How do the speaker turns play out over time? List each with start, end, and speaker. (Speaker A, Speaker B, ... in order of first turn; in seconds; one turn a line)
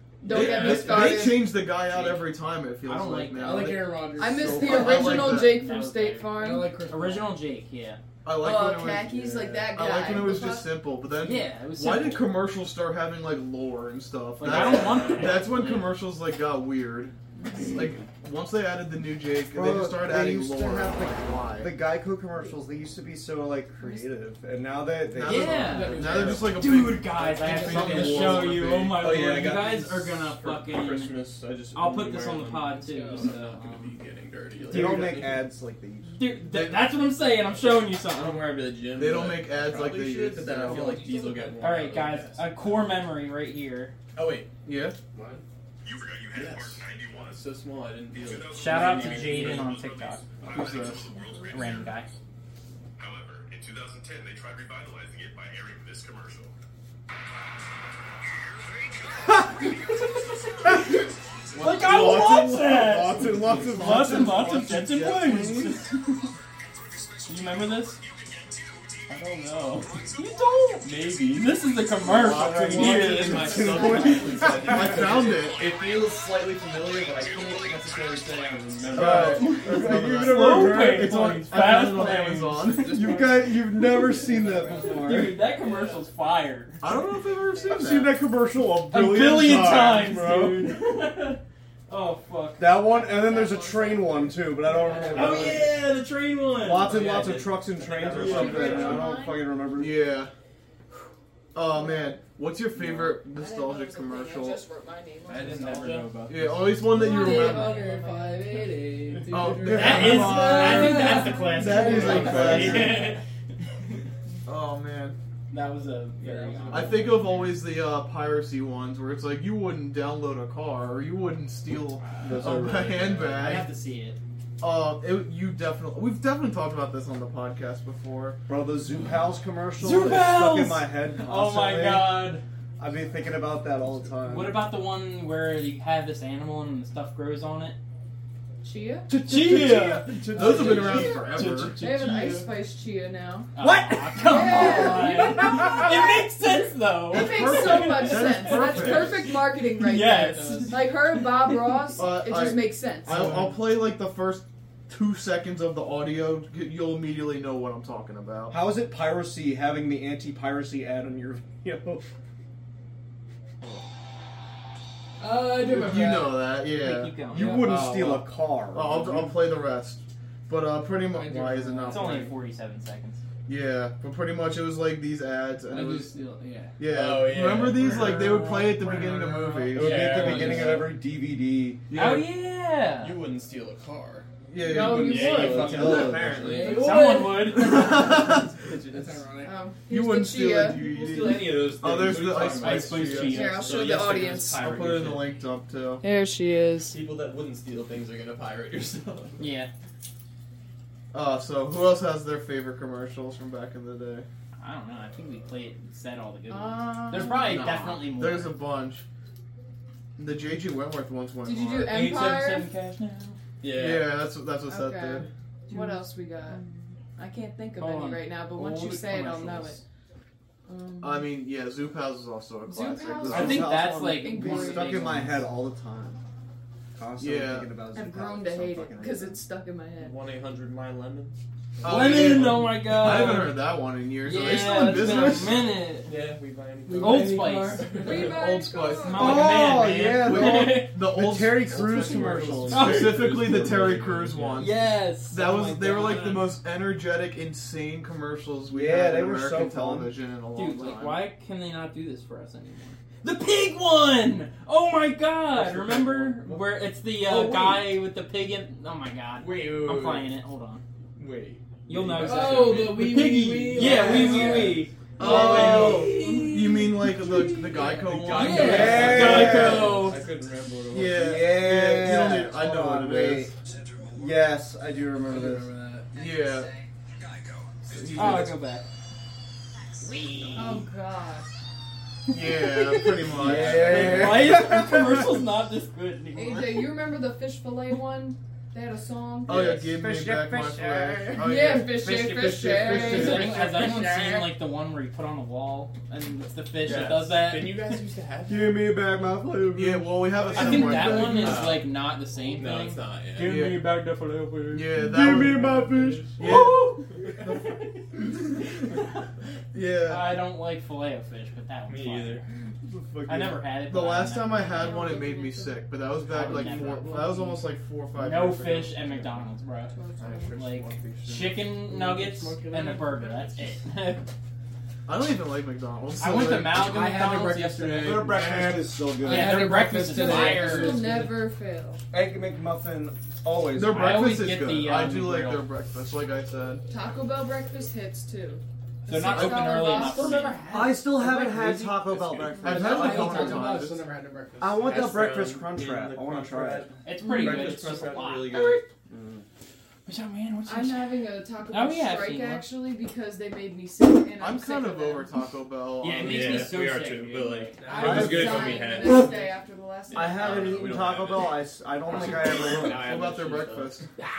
Speaker A: 0.2-1.5
Speaker B: 0.3-5.6
Speaker C: 0.7-1.1
Speaker C: 1.9-2.2
Speaker C: 2.8-3.8
Speaker D: 3.4-5.4
Speaker A: 4.2-6.7
Speaker C: 4.9-8.0
Speaker D: 6.3-7.4
Speaker B: 8.2-9.1
Speaker A: 8.4-10.7
Speaker E: 9.1-9.7
Speaker B: 9.7-21.8
Speaker C: 11.2-12.4
Speaker C: 14.4-15.9
Speaker E: 14.5-15.2
Speaker F: 19.5-26.6
Speaker B: 25.1-29.1
Speaker C: 25.2-31.1
Speaker D: 25.6-26.9
Speaker D: 27.6-27.9
Speaker E: 27.6-35.5
Speaker F: 27.8-28.4
Speaker C: 31.7-34.0
Speaker D: 32.8-33.5
Speaker F: 34.6-36.2
Speaker C: 36.1-38.6
Speaker B: 36.5-36.9
Speaker E: 38.1-42.8
Speaker B: 39.0-41.1
Speaker D: 40.8-41.8
Speaker C: 41.6-43.9
Speaker E: 44.1-44.5
Speaker B: 44.6-45.0
Speaker G: 45.8-47.4
Speaker E: 46.3-49.8
Speaker G: 48.1-52.0
Speaker C: 48.5-51.0
Speaker E: 50.4-50.8
Speaker B: 50.5-51.0
Speaker A: 51.2-51.7
Speaker C: 51.5-52.1
Speaker G: 53.0-56.5
Speaker G: 59.1-60.7
Speaker B: 61.5-62.8
Speaker C: 61.6-66.3
Speaker F: 61.8-65.8
Speaker E: 63.4-63.8
Speaker C: 67.3-68.0
Speaker C: 69.1-74.5
Speaker E: 70.8-79.7
Speaker F: 72.1-75.1
Speaker B: 74.6-75.6
Speaker G: 75.5-76.1
Speaker G: 77.1-78.1
Speaker F: 78.9-81.3
Speaker B: 78.9-83.0
Speaker C: 79.0-82.9
Speaker E: 82.7-84.9
Speaker F: 82.9-85.4
Speaker D: 84.2-86.0
Speaker C: 84.8-86.8
Speaker B: 86.8-88.2
Speaker F: 87.6-90.7
Speaker C: 88.8-92.9
Speaker E: 90.1-90.7
Speaker F: 92.6-95.8
Speaker A: 93.0-94.2
Speaker D: 94.7-95.2
Speaker C: 95.1-97.0
Speaker E: 95.1-95.8
Speaker F: 96.6-100.1
Speaker E: 96.7-99.2
Speaker A: 98.2-99.4
Speaker C: 98.4-98.7
Speaker B: 98.6-98.9
Speaker B: 99.8-100.3
Speaker B: 101.5-104.6
Speaker A: 101.8-102.2
Speaker E: 102.8-103.1
Speaker A: 103.3-106.1
Speaker E: 105.3-106.8
Speaker C: 105.7-106.0
Speaker B: 106.3-107.8
Speaker A: 106.9-109.0
Speaker D: 107.0-113.0
Speaker C: 107.2-108.3
Speaker B: 109.3-113.1
Speaker C: 109.7-113.2
Speaker A: 111.2-112.5
Speaker E: 112.0-113.0
Speaker B: 114.5-115.2
Speaker C: 115.5-117.1
Speaker D: 116.2-117.1
Speaker E: 116.6-117.4
Speaker B: 116.7-123.7
Speaker F: 122.2-123.2
Speaker E: 123.0-123.4
Speaker C: 123.3-124.2
Speaker B: 124.6-128.4
Speaker F: 128.5-134.6
Speaker C: 129.8-132.4
Speaker C: 134.2-137.8
Speaker A: 138.6-139.1
Speaker C: 139.1-140.6
Speaker F: 139.3-141.2
Speaker B: 139.3-141.8
Speaker D: 140.4-141.1
Speaker E: 140.7-142.1
Speaker C: 141.2-142.4
Speaker A: 141.8-143.5
Speaker C: 143.6-151.8
Speaker F: 143.6-146.1
Speaker A: 144.2-146.2
Speaker A: 147.1-153.3
Speaker B: 147.1-149.1
Speaker F: 148.4-149.1
Speaker D: 150.2-150.8
Speaker B: 152.0-158.5
Speaker F: 158.5-162.1
Speaker D: 165.2-166.6
Speaker B: 165.5-172.3
Speaker C: 166.7-167.6
Speaker F: 167.3-169.3
Speaker E: 167.6-168.2
Speaker D: 171.1-172.3
Speaker C: 171.9-173.2
Speaker B: 173.4-176.1
Speaker D: 175.7-176.9
Speaker B: 176.8-180.3
Speaker E: 176.8-178.4
Speaker C: 177.8-180.7
Speaker E: 179.7-181.0
Speaker F: 179.7-181.9
Speaker B: 181.9-182.3
Speaker C: 181.9-183.2
Speaker E: 182.9-187.0
Speaker B: 184.5-185.4
Speaker D: 184.6-189.6
Speaker F: 185.4-186.8
Speaker C: 185.4-188.3
Speaker A: 186.9-187.3
Speaker B: 187.5-188.5
Speaker E: 187.8-189.2
Speaker A: 189.4-191.5
Speaker B: 189.9-193.4
Speaker E: 190.7-195.3
Speaker C: 192.4-193.8
Speaker A: 193.2-194.7
Speaker B: 194.6-196.0
Speaker A: 196.0-197.0
Speaker E: 196.9-199.4
Speaker C: 199.4-199.7
Speaker B: 201.1-204.3
Speaker C: 204.6-208.6
Speaker A: 206.5-207.6
Speaker B: 207.4-209.1
Speaker B: 210.2-212.1
Speaker A: 211.4-212.7
Speaker C: 211.9-213.4
Speaker E: 213.6-214.2
Speaker B: 213.7-215.3
Speaker A: 214.7-216.6
Speaker C: 215.7-217.0
Speaker A: 217.2-219.8
Speaker C: 217.8-219.8
Speaker A: 220.7-221.3
Speaker B: 221.0-223.6
Speaker A: 222.7-225.1
Speaker F: 223.2-226.2
Speaker C: 223.3-225.5
Speaker F: 226.9-229.4
Speaker B: 227.2-227.7
Speaker A: 227.9-230.1
Speaker E: 230.0-232.6
Speaker B: 231.8-235.7
Speaker C: 231.8-233.6
Speaker C: 234.2-236.1
Speaker E: 236.1-238.4
Speaker D: 236.9-238.2
Speaker C: 237.0-238.3
Speaker A: 238.0-239.5
Speaker B: 238.2-239.4
Speaker C: 238.9-240.9
Speaker F: 239.2-243.0
Speaker B: 240.0-251.2
Speaker E: 241.7-244.8
Speaker C: 242.7-243.4
Speaker C: 244.6-246.4
Speaker D: 246.0-246.5
Speaker F: 248.7-250.1
Speaker C: 250.6-260.8
Speaker E: 255.5-257.9
Speaker E: 259.4-260.3
Speaker E: 261.1-263.1
Speaker C: 261.9-266.9
Speaker D: 262.1-264.9
Speaker F: 263.8-265.8
Speaker E: 263.8-264.6
Speaker B: 265.2-269.8
Speaker E: 265.3-266.5
Speaker D: 267.0-270.1
Speaker E: 267.5-271.2
Speaker C: 268.3-270.2
Speaker F: 268.5-270.1
Speaker B: 270.9-273.5
Speaker F: 271.0-273.5
Speaker F: 274.1-275.7
Speaker D: 275.3-276.8
Speaker B: 276.1-276.7
Speaker B: 277.9-278.6
Speaker C: 278.1-278.9
Speaker C: 280.0-280.8
Speaker A: 280.5-281.5
Speaker B: 282.3-284.6
Speaker C: 282.4-286.9
Speaker F: 283.3-285.3
Speaker A: 286.4-289.9
Speaker B: 289.4-292.1
Speaker F: 289.8-294.0
Speaker A: 291.4-293.6
Speaker D: 292.9-294.6
Speaker C: 292.9-297.8
Speaker E: 296.8-298.9
Speaker F: 298.5-301.4
Speaker B: 299.7-301.6
Speaker E: 300.5-303.8
Speaker C: 300.6-304.9
Speaker B: 303.4-303.9
Speaker B: 304.7-305.7
Speaker F: 304.9-306.9
Speaker E: 305.4-306.5
Speaker B: 306.4-307.6
Speaker C: 306.4-308.1
Speaker B: 309.7-310.3
Speaker C: 310.1-312.4
Speaker E: 311.9-312.4
Speaker F: 312.8-313.6
Speaker C: 313.3-314.9
Speaker B: 313.9-319.4
Speaker A: 314.6-315.9
Speaker C: 316.3-317.6
Speaker C: 318.1-319.9
Speaker A: 319.9-320.6
Speaker B: 320.2-321.6
Speaker C: 320.5-324.3
Speaker D: 321.9-323.8
Speaker E: 322.1-322.6
Speaker B: 325.1-326.9
Speaker C: 326.2-328.4
Speaker D: 326.9-331.4
Speaker E: 327.6-328.8
Speaker F: 328.0-330.3
Speaker C: 329.2-331.2
Speaker A: 330.1-332.0
Speaker F: 332.1-334.2
Speaker B: 333.7-336.8
Speaker C: 333.9-335.7
Speaker A: 336.9-340.6
Speaker C: 339.1-341.9
Speaker B: 339.3-339.9
Speaker D: 340.1-341.1
Speaker F: 340.7-343.8
Speaker E: 341.7-343.5
Speaker B: 342.6-344.1
Speaker D: 342.7-345.2
Speaker F: 344.6-346.9
Speaker E: 344.7-348.9
Speaker C: 347.1-348.9
Speaker D: 347.4-347.9
Speaker F: 349.1-349.4
Speaker C: 350.1-352.6
Speaker A: 350.6-355.3
Speaker B: 354.4-356.7
Speaker C: 356.0-357.8
Speaker E: 356.1-359.4
Speaker D: 357.8-359.3
Speaker A: 357.9-361.0
Speaker F: 357.9-358.9
Speaker E: 360.1-364.0
Speaker F: 360.1-363.3
Speaker B: 362.8-364.1